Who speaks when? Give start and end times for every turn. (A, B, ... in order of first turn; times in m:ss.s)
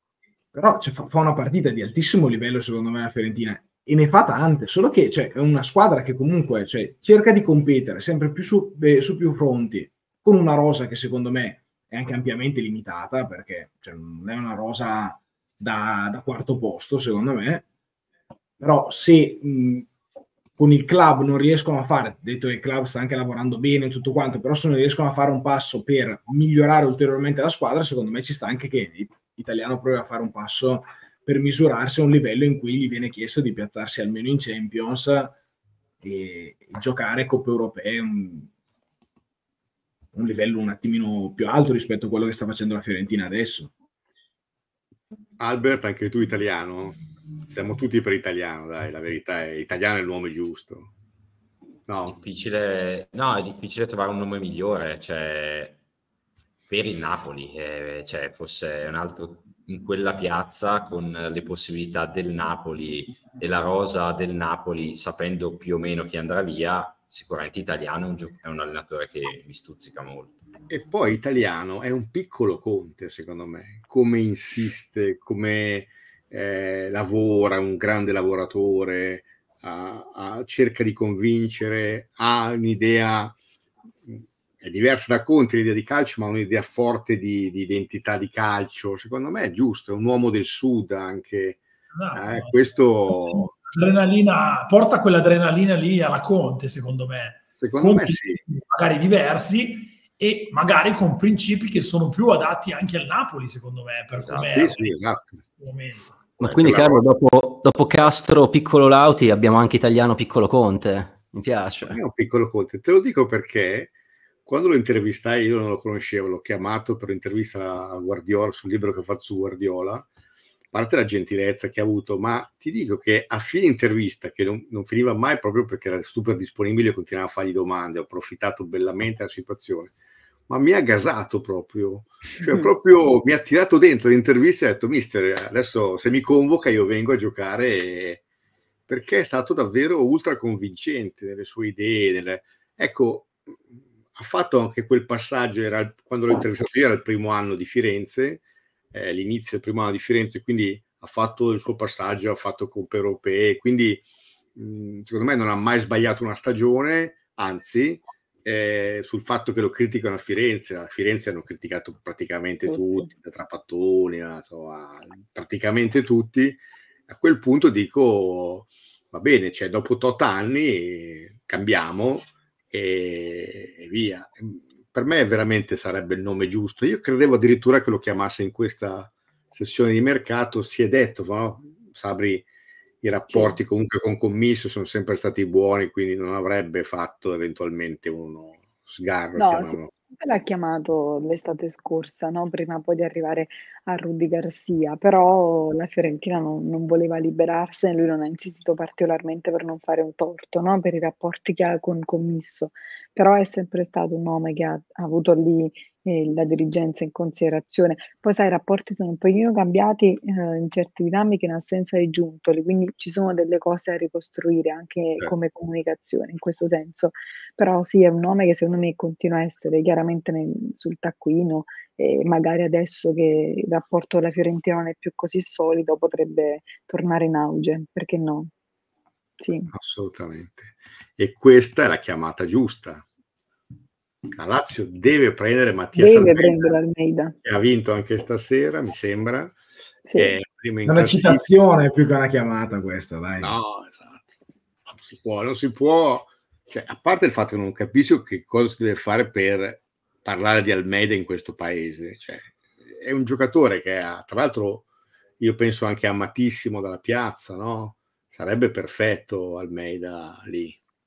0:00.5-0:17.6 A
0:18.6-0:19.9 A
0:20.6-0:35.3 A
0:36.0-0:38.5 A
0:40.1-0:43.7 A
0:45.4-0:47.0 B
0:47.5-0:50.9 B
0:51.9-0:52.2 B
0:52.0-0:55.8 C
0:56.7-1:10.4 C
1:10.7-1:23.4 B
1:24.1-1:31.6 B
1:31.9-1:32.5 D
1:32.1-1:33.5 B
1:33.1-1:45.0 D
1:37.6-1:38.4 B
1:44.3-1:45.4 B
1:45.6-1:46.2 D
1:46.4-1:47.0 B
1:46.4-1:52.0 E
1:51.9-1:53.9 B
1:54.4-2:00.1 B
2:00.7-2:09.9 B
2:10.5-2:18.2 B
2:12.4-2:12.7 F
2:18.9-2:34.0 B
2:34.6-3:02.4 B
3:03.0-3:09.9 B
3:03.3-3:03.6 F
3:09.4-3:48.5 F
3:49.4-3:49.7 F
3:49.7-3:53.0 B
3:54.3-3:56.8 B
3:56.0-3:57.4 F
3:57.4-3:59.6 B
4:00.1-4:00.3 F
4:00.1-4:01.4 B
4:00.8-4:03.5 A
4:03.4-4:04.3 B
4:05.0-4:14.9 B
4:15.4-4:20.8 B